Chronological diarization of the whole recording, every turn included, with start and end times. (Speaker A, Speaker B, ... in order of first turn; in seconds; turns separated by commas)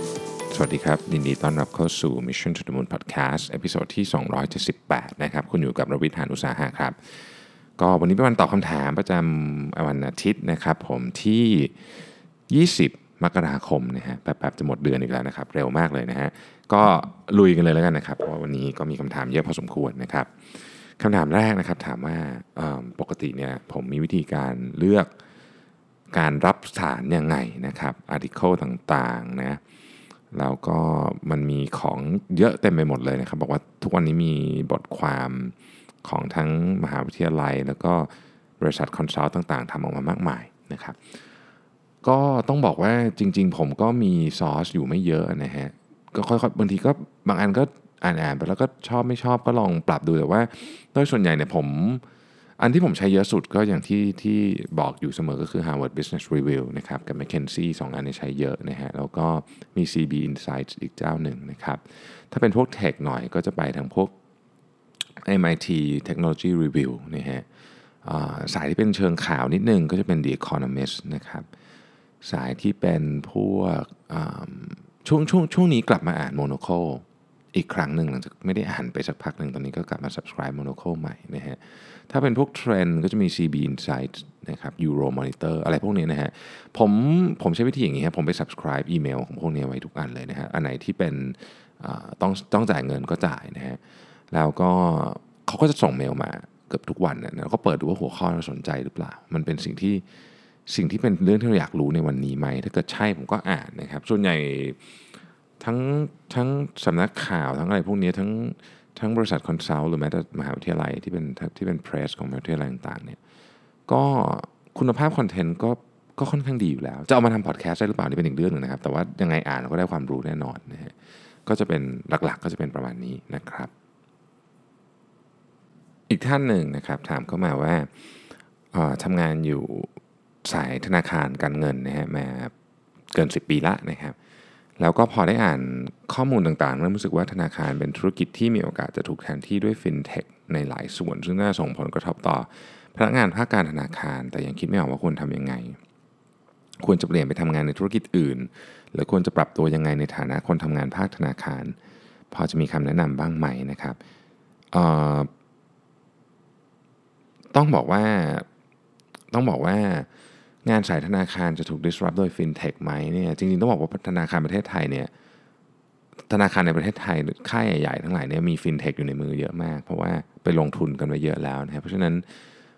Speaker A: 0.5-25.1, Speaker A: 26.1-29.6, Speaker A: 30.3-41.2, Speaker A: 42.0-52.0, Speaker A: 52.6-64.1, Speaker A: 65.2-67.5, Speaker A: 68.0-71.5, Speaker A: 72.2-93.8, Speaker A: 94.3-100.0, Speaker A: 100.7-104.8, Speaker A: 105.6-113.2, Speaker A: 113.9-120.9, Speaker A: 121.5-123.7, Speaker A: 126.1-128.1, Speaker A: 128.7-129.9, Speaker A: 130.4-132.5, Speaker A: 133.1-134.2, Speaker A: 134.8-145.8, Speaker A: 146.8-151.8, Speaker A: 152.3-154.0, Speaker A: 154.7-155.3, Speaker A: 157.5-158.5, Speaker A: 159.3-160.1, Speaker A: 160.7-165.1, Speaker A: 166.3-172.4